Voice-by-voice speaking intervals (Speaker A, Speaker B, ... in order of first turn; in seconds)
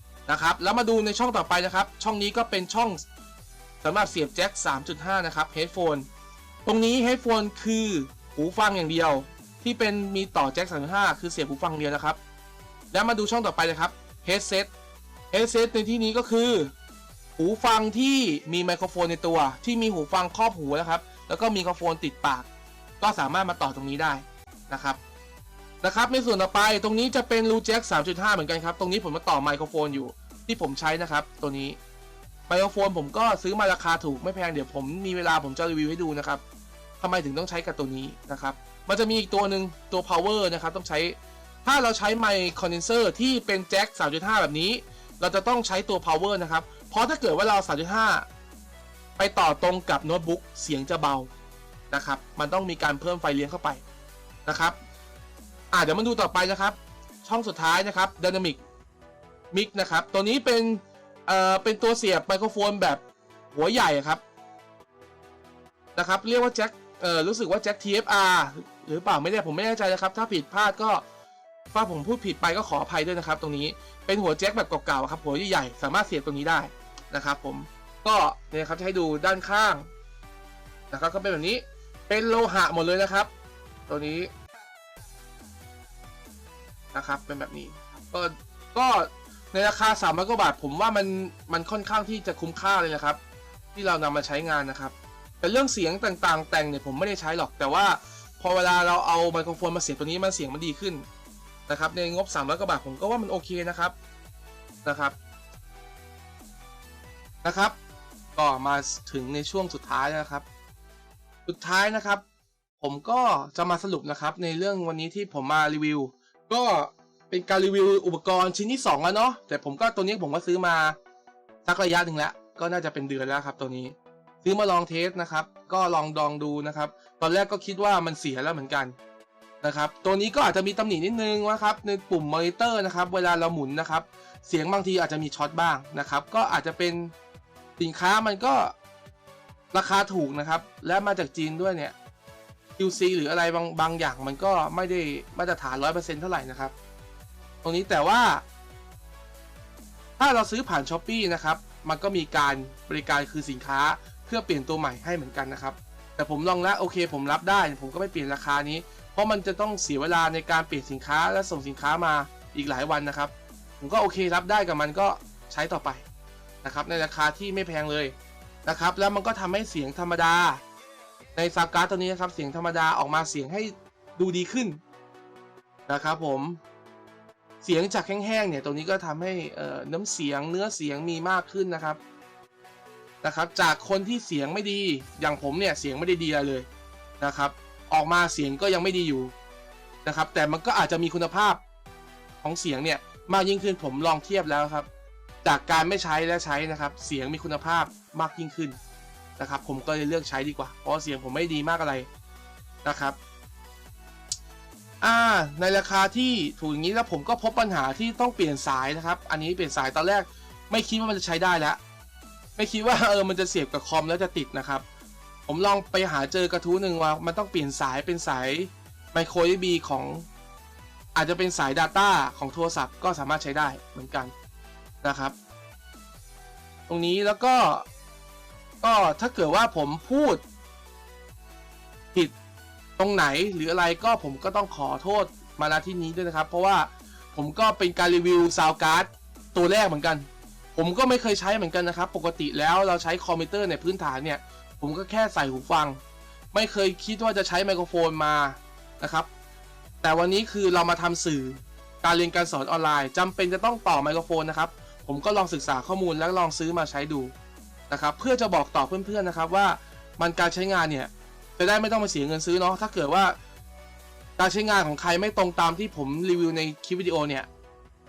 Speaker A: 0.3-3.0, 3.8-6.0, 6.6-12.2, 12.9-14.7, 15.3-16.7, 17.4-22.5, 23.0-25.0, 25.8-31.8, 32.5-36.4, 37.0-48.3, 49.2-51.3, 51.9-53.8, 54.5-54.8, 55.7-58.6, 59.5-64.2, 66.0-71.0, 71.7-79.9, 80.9-83.3, 83.9-84.3, 86.9-93.2, 93.7-101.0, 101.7-103.9, 104.8-105.2, 107.4-107.8, 108.3-110.4, 111.5-112.2, 112.8-121.0, 121.6-128.9, 129.6-137.1, 137.8-138.7, 139.7-141.9, 142.8-146.7, 147.6-148.4, 150.2-166.0, 166.6-170.6, 171.3-174.8, 175.9-176.6, 177.6-182.0, 183.2-186.7, 187.2-189.3, 190.0-191.6, 192.4-194.9, 195.4-198.8, 199.4-202.1, 202.8-203.2, 205.0-211.8, 212.6-214.8, 215.5-220.2, 221.1-224.3, 225.0-225.3, 226.9-227.8, 228.8-230.4, 233.0-246.0, 246.5-249.3, 250.0-257.3, 257.9-263.4, 264.4-267.5